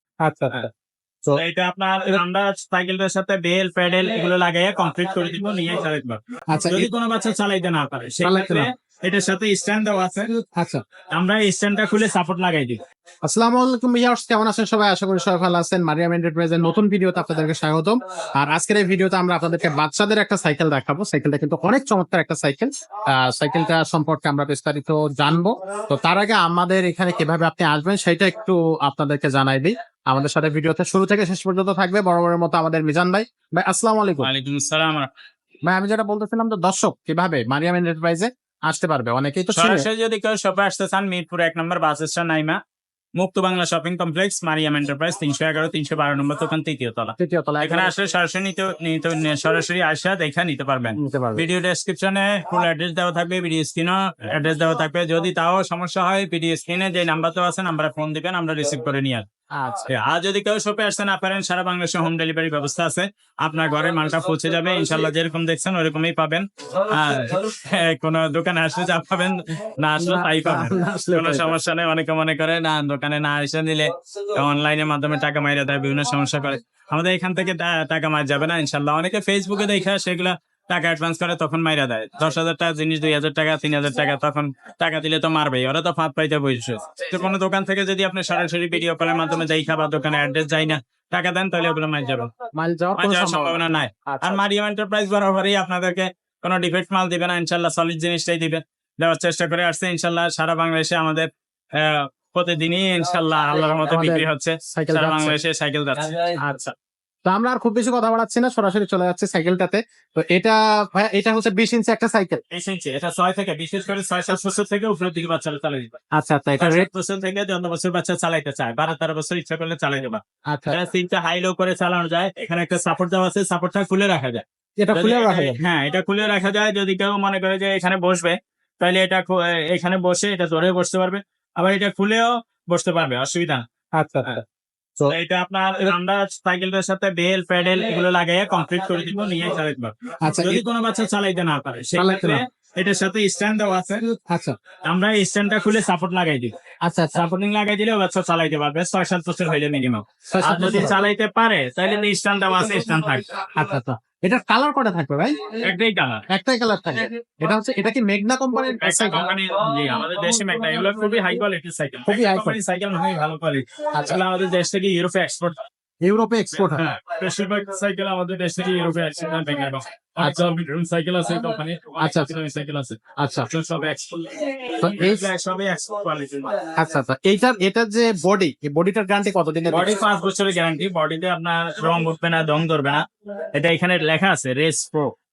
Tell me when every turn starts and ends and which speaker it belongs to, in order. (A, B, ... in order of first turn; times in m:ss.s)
0:00.2-0:00.7 A
0:01.4-0:10.3 B
0:06.5-0:06.9 A
0:08.2-0:08.7 A
0:10.6-0:10.8 A
0:11.1-0:12.8 B
0:13.2-0:34.3 A
0:34.2-0:35.1 B
0:35.7-0:39.9 A
0:39.5-0:42.6 B
0:43.2-0:59.3 B
0:47.2-0:47.9 A
0:51.0-0:51.4 A
0:59.6-0:59.9 A
0:59.9-1:32.3 B
1:10.0-1:11.5 A
1:32.6-1:34.4 A
1:33.0-1:46.1 B
1:43.8-1:45.4 A
1:46.4-1:46.7 A
1:47.2-1:52.4 A
1:52.5-1:56.0 B
1:56.2-1:56.9 A
1:56.6-2:13.6 B
2:00.5-2:00.8 A
2:04.8-2:05.6 A
2:14.0-2:14.4 A
2:15.1-2:24.0 B
2:20.2-2:20.6 A
2:22.0-2:22.4 A
2:24.1-2:24.6 A
2:24.8-2:26.5 B
2:26.9-2:27.2 A
2:27.2-2:33.3 B
2:30.3-2:31.0 A
2:33.5-2:35.6 A
2:35.6-2:36.2 B
2:36.3-2:39.3 A
2:38.8-2:45.6 B
2:42.1-2:42.6 A
2:43.9-2:44.2 A
2:46.0-2:46.8 A
2:46.6-2:56.6 B
2:52.0-2:52.3 A
2:53.2-2:53.5 A
2:54.8-2:55.2 A
2:56.7-3:00.0 A
2:59.7-3:05.1 B